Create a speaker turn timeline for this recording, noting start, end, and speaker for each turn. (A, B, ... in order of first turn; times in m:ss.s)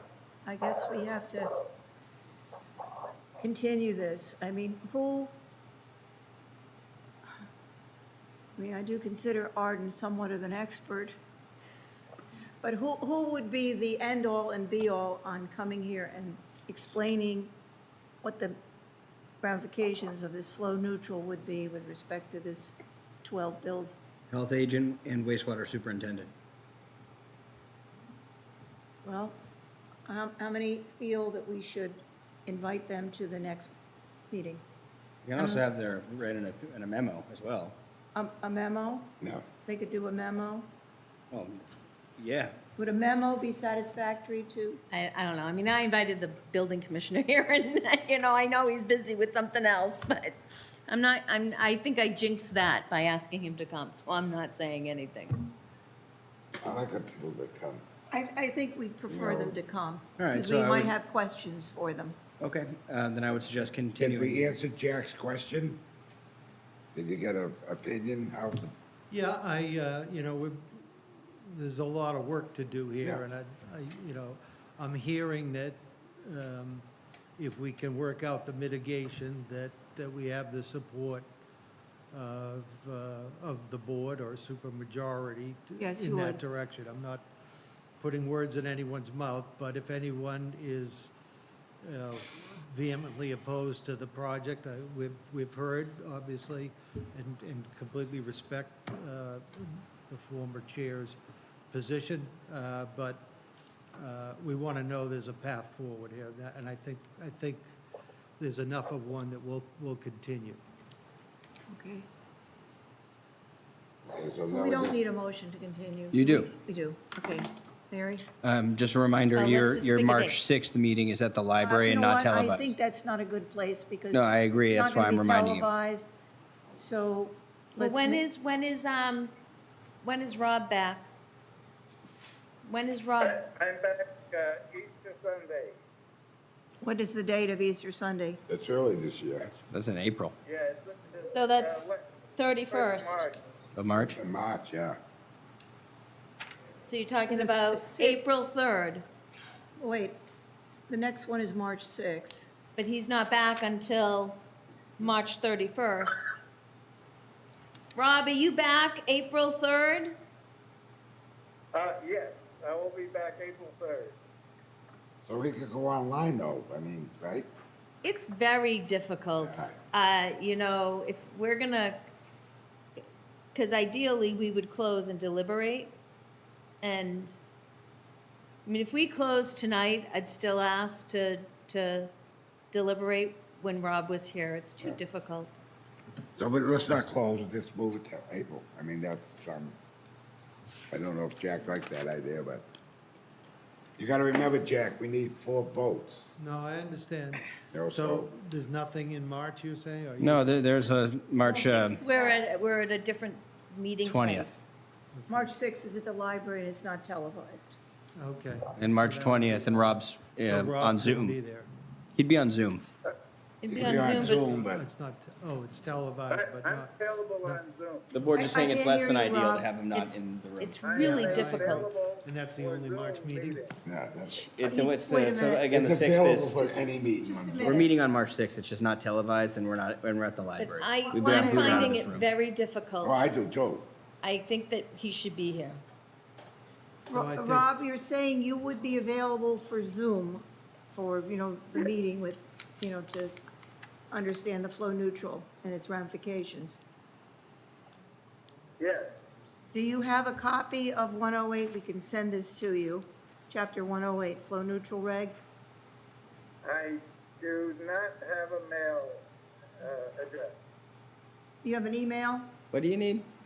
0:00.4-0:01.5 A
0:03.4-0:05.4 A
0:08.6-0:11.2 A
0:12.6-0:17.5 A
0:18.2-0:18.6 A
0:19.4-0:23.9 A
0:24.3-0:26.3 B
0:29.0-0:29.4 A
0:30.1-0:33.7 A
0:34.3-0:34.6 A
0:35.2-0:37.8 B
0:35.4-0:35.6 A
0:38.1-0:39.1 A
0:39.2-0:39.5 C
0:39.6-0:40.7 A
0:41.3-0:41.7 B
0:42.2-0:42.6 B
0:42.8-0:44.8 A
0:44.9-0:55.5 D
0:56.6-0:57.8 C
0:58.1-1:02.2 A
0:59.1-0:59.6 C
1:00.2-1:01.0 B
1:02.4-1:04.5 B
1:04.0-1:05.8 C
1:07.0-1:08.7 C
1:09.1-1:21.3 E
1:22.1-1:27.3 E
1:25.8-1:26.4 A
1:28.0-1:31.1 E
1:31.8-1:41.2 E
1:41.7-1:43.3 E
1:44.0-1:47.8 E
1:48.4-1:50.6 E
1:51.7-1:52.1 A
1:54.1-1:55.0 C
1:54.5-1:58.3 A
1:56.1-1:56.5 B
1:58.4-2:02.8 B
1:59.4-2:00.4 D
2:01.6-2:06.1 A
2:04.1-2:05.7 B
2:06.8-2:08.2 A
2:07.8-2:09.3 D
2:10.0-2:11.1 D
2:12.6-2:13.4 D
2:13.2-2:15.8 F
2:16.8-2:18.4 A
2:18.5-2:19.6 C
2:19.7-2:20.4 B
2:20.4-2:22.1 F
2:21.3-2:23.3 D
2:22.7-2:23.4 F
2:23.8-2:24.2 B
2:24.0-2:25.0 C
2:26.8-2:29.0 D
2:27.3-2:28.2 A
2:29.8-2:30.2 A
2:30.9-2:32.5 A
2:32.8-2:34.4 D
2:35.0-2:36.3 D
2:38.0-2:40.1 D
2:41.7-2:44.2 F
2:45.2-2:47.5 C
2:48.0-2:52.0 D
2:49.4-2:49.8 C
2:53.5-2:55.9 D
2:56.8-2:57.4 D
2:58.6-3:02.1 D
3:02.7-3:05.6 D
3:06.4-3:09.8 C
3:10.9-3:12.7 C
3:14.0-3:16.3 C
3:16.4-3:21.1 E
3:17.7-3:18.3 C
3:20.2-3:22.0 B
3:21.4-3:24.7 D
3:24.0-3:24.5 B
3:25.1-3:25.5 E
3:25.3-3:27.8 A
3:28.2-3:31.7 E
3:28.8-3:31.4 B
3:32.2-3:32.8 B
3:33.6-3:34.5 D
3:33.7-3:34.9 C
3:33.9-3:37.6 E
3:36.3-3:38.1 F
3:38.1-3:41.0 B
3:38.4-3:39.7 A
3:39.9-3:41.9 D
3:40.8-3:43.7 F
3:41.0-3:43.6 E
3:43.8-3:44.5 C
3:44.4-3:45.7 A
3:44.6-3:46.7 B
3:45.7-3:47.9 C
3:46.7-3:47.9 A
3:47.6-3:52.3 B
3:50.6-3:53.3 D
3:51.1-3:52.0 A
3:53.0-3:53.9 C
3:54.2-3:55.8 D
3:57.1-4:03.4 A
3:57.1-3:57.7 E
4:04.1-4:06.8 A
4:08.8-4:09.1 F
4:09.7-4:15.4 A
4:16.6-4:19.2 F
4:19.8-4:20.5 F
4:21.6-4:22.5 A
4:22.7-4:23.3 B